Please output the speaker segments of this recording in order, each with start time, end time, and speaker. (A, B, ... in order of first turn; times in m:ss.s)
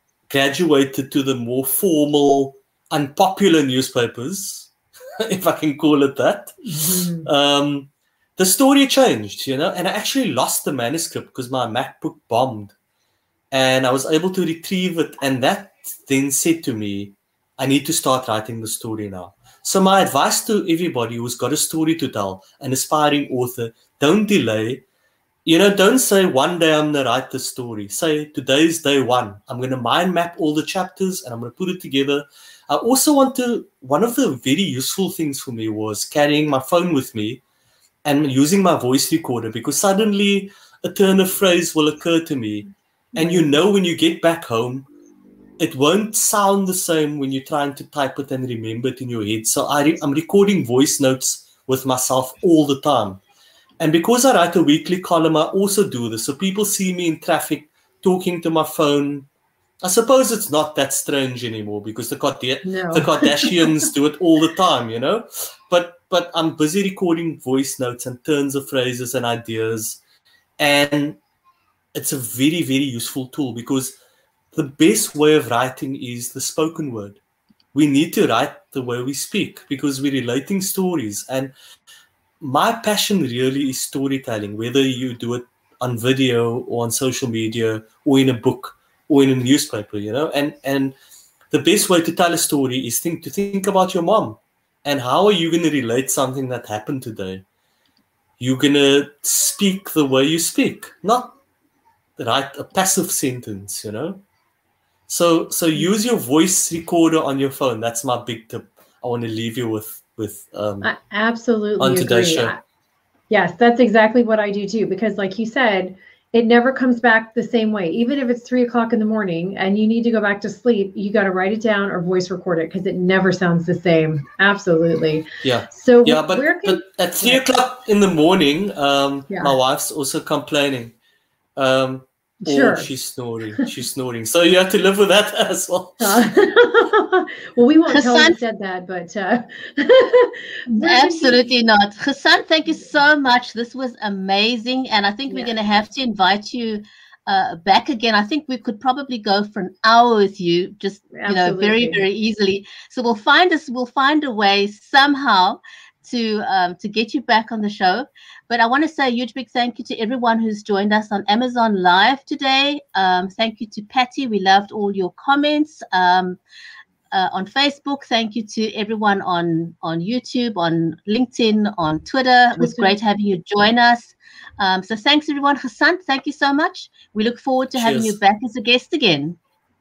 0:00.3-0:06.7 A
0:06.7-0:07.3 B
0:07.2-0:12.8 A
0:13.5-0:24.9 A
0:25.4-0:37.4 A
0:38.0-0:44.9 A
0:43.2-0:43.5 B
0:45.6-0:53.2 A
0:53.8-0:59.3 A
0:59.8-1:10.0 A
1:02.6-1:03.9 B
1:10.6-1:11.2 A
1:11.9-1:14.0 A
1:14.5-1:17.2 A
1:17.7-1:21.6 A
1:22.4-1:31.0 A
1:31.5-1:37.4 A
1:38.4-1:41.4 A
1:42.2-1:44.2 A
1:45.1-1:50.9 A
1:50.8-1:52.6 B
1:51.8-1:52.6 A
1:53.3-2:07.4 B
2:05.4-2:11.0 A
2:09.3-2:09.6 B
2:11.6-2:16.2 A
2:12.4-2:12.9 B
2:16.0-2:21.6 B
2:17.9-2:18.4 C
2:20.8-2:46.4 C
2:25.3-2:25.6 B
2:31.2-2:32.0 B
2:47.1-2:59.4 C
2:52.6-2:53.0 B
2:57.8-2:58.2 A